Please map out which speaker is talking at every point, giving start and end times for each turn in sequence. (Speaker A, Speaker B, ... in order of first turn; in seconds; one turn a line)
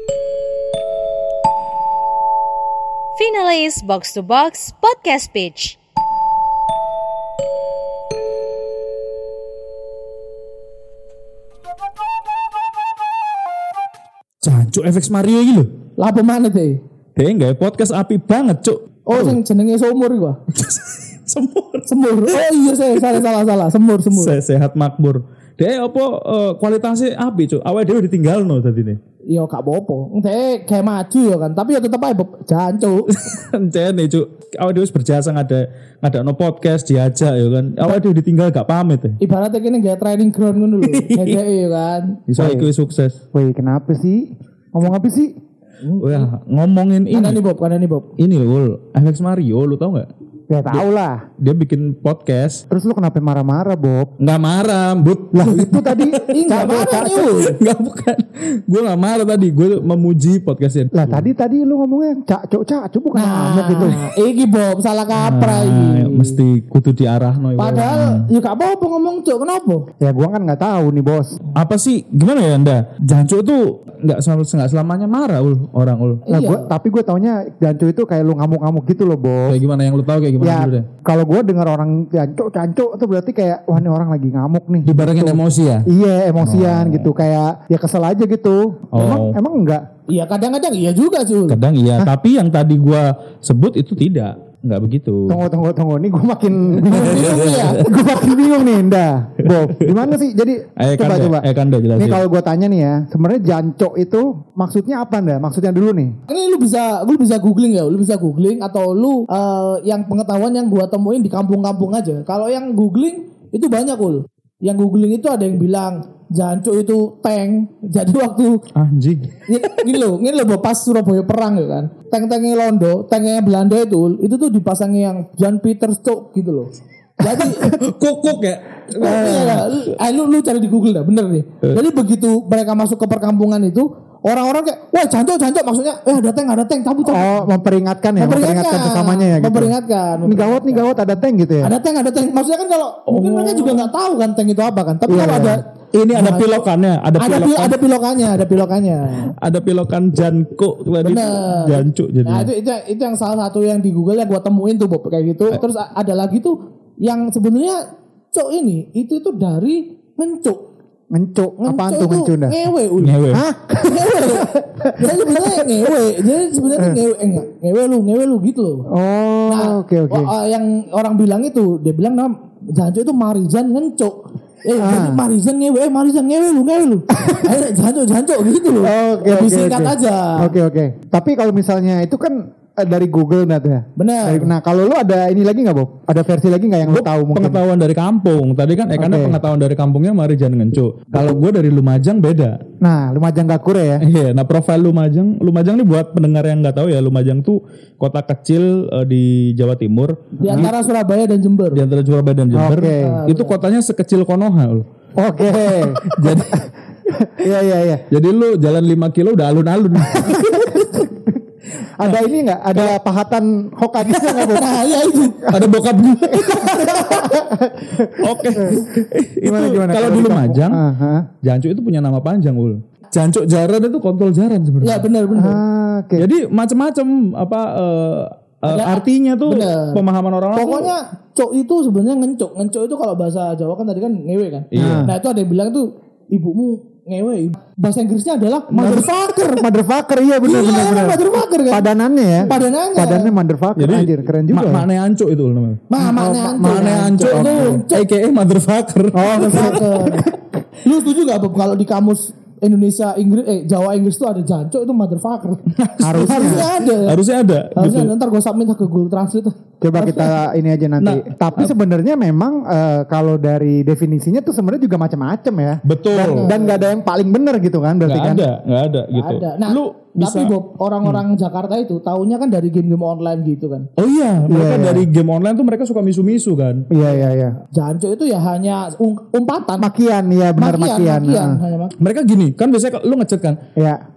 Speaker A: 3.1-5.8
Speaker B: 14.4-15.7
Speaker C: 16.0-16.8
Speaker B: 17.1-19.4
Speaker C: 19.1-20.4
Speaker B: 20.5-22.4
Speaker C: 21.9-24.4
Speaker B: 24.1-29.0
Speaker C: 29.3-33.1
Speaker B: 33.1-39.1
Speaker C: 39.2-42.2
Speaker B: 40.8-41.4
Speaker B: 42.3-43.2
Speaker D: 42.4-42.7
Speaker D: 43.3-45.3
Speaker C: 45.8-46.3
Speaker B: 46.0-47.4
Speaker C: 47.1-48.1
Speaker B: 48.2-50.1
Speaker D: 50.5-51.3
Speaker B: 51.4-52.6
Speaker D: 52.7-54.1
Speaker B: 54.2-56.1
Speaker D: 55.3-57.4
Speaker C: 56.2-57.6
Speaker B: 57.3-61.3
Speaker D: 60.9-64.0
Speaker C: 63.1-66.4
Speaker B: 65.1-68.3
Speaker C: 67.6-69.9
Speaker D: 70.0-71.4
Speaker B: 71.5-76.2
Speaker C: 76.3-76.7
Speaker D: 76.3-79.6
Speaker B: 79.5-80.9
Speaker D: 80.4-89.8
Speaker B: 84.8-85.9
Speaker B: 86.4-87.1
Speaker B: 88.9-89.4
Speaker C: 90.1-91.6
Speaker B: 91.5-95.4
Speaker D: 95.3-101.5
Speaker C: 96.8-97.9
Speaker B: 96.9-97.9
Speaker B: 99.5-100.1
Speaker B: 100.8-102.2
Speaker D: 102.0-106.1
Speaker C: 106.3-118.6
Speaker B: 118.8-119.3
Speaker C: 119.5-127.8
Speaker B: 127.2-129.9
Speaker C: 128.9-137.5
Speaker D: 137.0-141.8
Speaker C: 138.2-140.9
Speaker C: 141.6-146.7
Speaker B: 143.1-143.9
Speaker D: 145.1-145.6
Speaker B: 145.9-147.8
Speaker C: 147.2-149.3
Speaker B: 149.2-152.5
Speaker C: 151.0-157.8
Speaker C: 158.3-160.6
Speaker D: 161.1-162.6
Speaker C: 161.6-163.2
Speaker B: 163.0-163.4
Speaker D: 163.3-165.7
Speaker C: 163.8-168.8
Speaker D: 168.9-170.3
Speaker C: 169.5-180.6
Speaker D: 174.8-175.2
Speaker D: 177.2-177.6
Speaker D: 178.8-187.6
Speaker C: 184.0-184.5
Speaker B: 186.9-192.6
Speaker D: 189.0-189.4
Speaker D: 192.8-194.0
Speaker B: 194.0-200.7
Speaker C: 200.4-201.8
Speaker D: 200.4-200.7
Speaker B: 201.7-204.8
Speaker D: 202.5-203.2
Speaker C: 202.9-203.6
Speaker D: 205.2-208.0
Speaker B: 205.7-206.7
Speaker C: 206.0-206.3
Speaker B: 208.1-211.1
Speaker D: 210.1-211.4
Speaker D: 212.0-214.8
Speaker C: 214.1-215.7
Speaker B: 215.5-217.2
Speaker D: 216.3-221.3
Speaker C: 216.8-217.4
Speaker B: 218.2-220.8
Speaker B: 221.4-225.1
Speaker C: 224.8-225.6
Speaker D: 225.3-226.3
Speaker B: 226.2-230.9
Speaker C: 228.7-239.7
Speaker B: 234.7-235.1
Speaker D: 234.7-235.1
Speaker D: 238.7-244.9
Speaker C: 240.4-241.9
Speaker C: 242.5-243.3
Speaker B: 243.8-245.8
Speaker C: 245.9-248.1
Speaker D: 246.0-247.8
Speaker B: 246.6-249.8
Speaker D: 249.1-250.4
Speaker C: 249.3-250.3
Speaker C: 250.8-255.6
Speaker B: 255.8-258.1
Speaker D: 256.0-256.7
Speaker C: 256.2-257.2
Speaker C: 257.8-260.4
Speaker D: 259.8-268.4
Speaker B: 261.0-261.7
Speaker B: 265.9-266.5
Speaker C: 266.2-266.9
Speaker B: 268.1-271.2
Speaker C: 269.1-273.9
Speaker B: 274.0-276.9
Speaker D: 274.5-275.1
Speaker D: 276.9-277.6
Speaker C: 277.0-279.9
Speaker D: 279.8-281.6
Speaker C: 280.6-281.9
Speaker B: 282.0-283.6